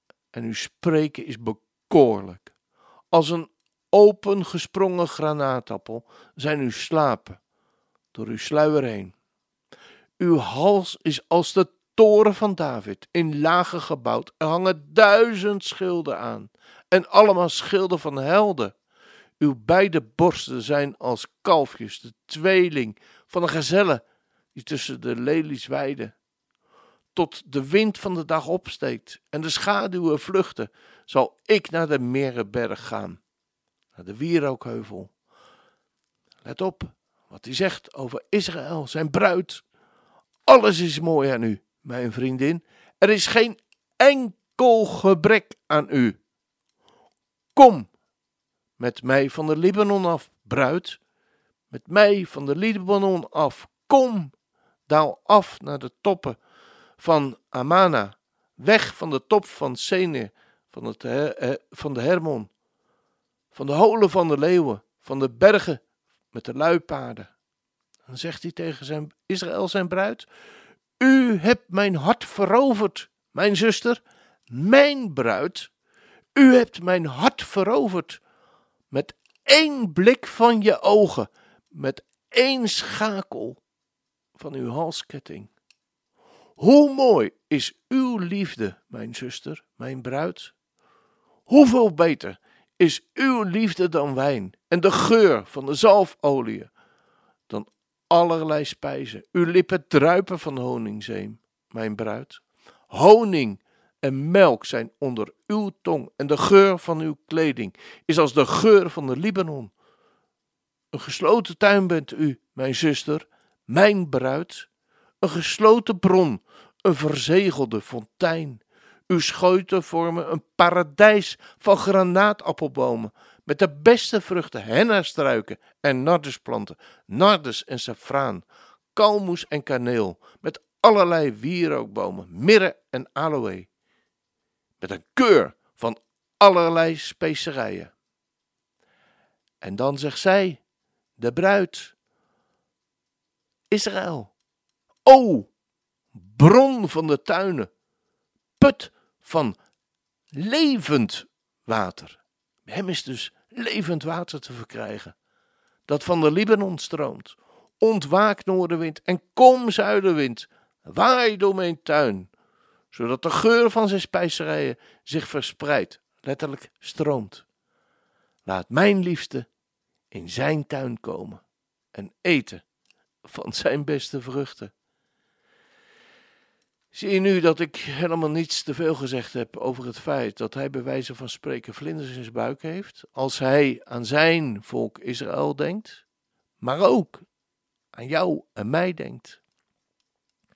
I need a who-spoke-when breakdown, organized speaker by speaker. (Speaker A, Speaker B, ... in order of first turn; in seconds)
Speaker A: 0.3-2.5, 3.1-7.4, 8.1-9.1, 10.2-18.8, 19.4-24.0, 24.5-26.1, 27.1-33.2, 34.0-35.1, 36.4-39.6, 40.5-46.2, 47.5-47.9, 48.8-51.0, 51.7-54.3, 54.9-56.4, 57.0-62.5, 63.5-67.3, 68.1-70.3, 71.0-75.7, 76.4-78.2, 78.9-83.6, 84.4-85.5, 86.6-90.5, 91.5-96.7, 97.5-109.7, 110.9-114.7, 115.2-133.7, 134.8-137.9, 139.6-140.6, 141.2-141.9, 143.7-144.3, 145.1-145.5, 146.1-147.7, 148.6-149.6, 150.3-155.2, 155.9-162.3, 162.9-167.4, 168.4-169.5, 170.1-171.4, 171.9-172.6, 173.2-174.7, 176.9-186.0, 186.6-187.2, 187.9-189.4